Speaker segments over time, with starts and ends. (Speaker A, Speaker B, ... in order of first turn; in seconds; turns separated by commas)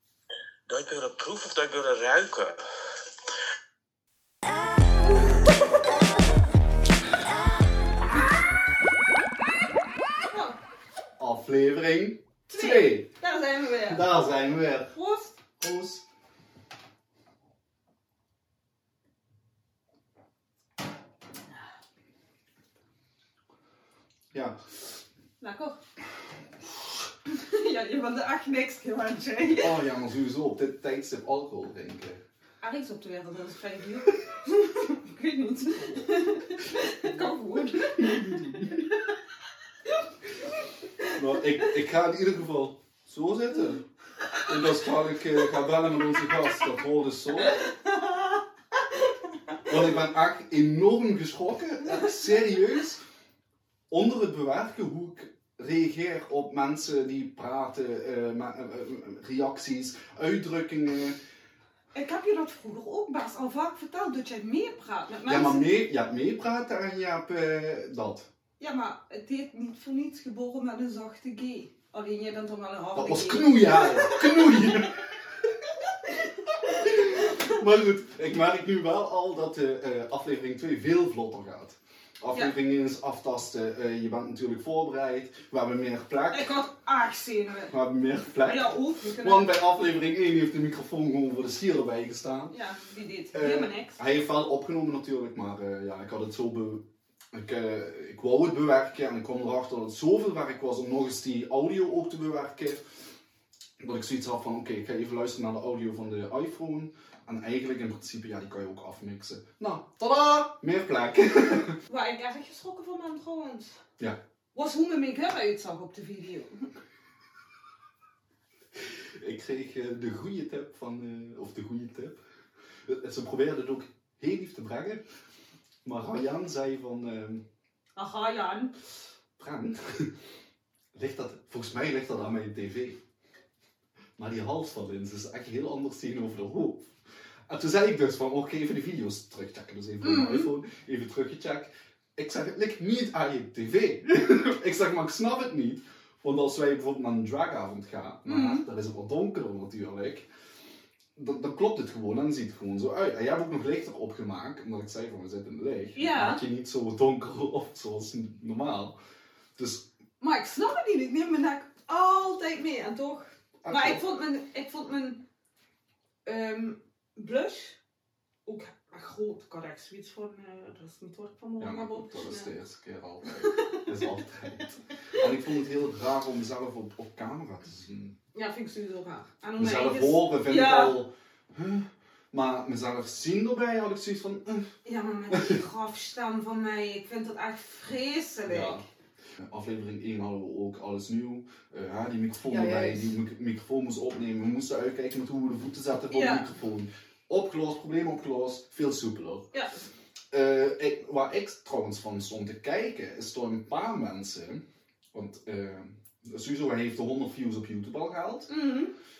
Speaker A: 0.7-2.6, Speaker B: 5.1-5.5, Speaker B: 10.3-10.6, Speaker C: 11.2-13.1, Speaker B: 12.5-14.1, Speaker C: 13.9-14.9, Speaker B: 14.9-15.3, Speaker C: 15.6-16.0, Speaker C: 24.3-25.0, Speaker B: 25.4-25.8, Speaker B: 27.3-29.8, Speaker C: 29.6-32.2, Speaker B: 32.6-38.6, Speaker C: 36.8-38.9, Speaker C: 41.1-43.8, Speaker C: 44.5-47.6, Speaker B: 47.5-48.4, Speaker C: 49.6-53.0, Speaker C: 53.9-61.2, Speaker B: 61.9-65.7, Speaker C: 65.2-68.3, Speaker B: 68.6-74.8, Speaker C: 72.9-75.0, Speaker C: 76.7-86.5, Speaker B: 77.0-77.4, Speaker B: 86.3-87.7, Speaker C: 87.7-92.5, Speaker B: 88.4-89.5, Speaker B: 92.5-94.0, Speaker C: 93.3-102.9, Speaker C: 103.8-111.8, Speaker B: 111.9-113.8, Speaker B: 114.5-116.6, Speaker C: 119.0-122.2, Speaker C: 122.8-125.0, Speaker C: 125.8-127.4, Speaker B: 128.0-128.7, Speaker C: 129.4-130.1, Speaker C: 130.9-133.0, Speaker C: 134.2-136.9, Speaker C: 137.5-150.3, Speaker B: 140.0-140.5, Speaker B: 148.2-148.7, Speaker C: 151.2-158.9, Speaker B: 155.9-156.4, Speaker C: 159.6-159.9, Speaker B: 160.2-165.2, Speaker C: 163.6-164.0, Speaker B: 166.2-167.8, Speaker B: 168.4-172.5, Speaker C: 171.6-178.1, Speaker B: 173.4-173.8, Speaker B: 178.3-181.0, Speaker C: 179.6-184.7, Speaker B: 184.8-188.8, Speaker C: 185.3-185.6, Speaker C: 188.4-188.8, Speaker C: 189.4-199.5, Speaker B: 192.5-193.1, Speaker B: 196.1-196.4, Speaker B: 199.5-199.8, Speaker C: 200.3-208.5, Speaker B: 208.5-208.9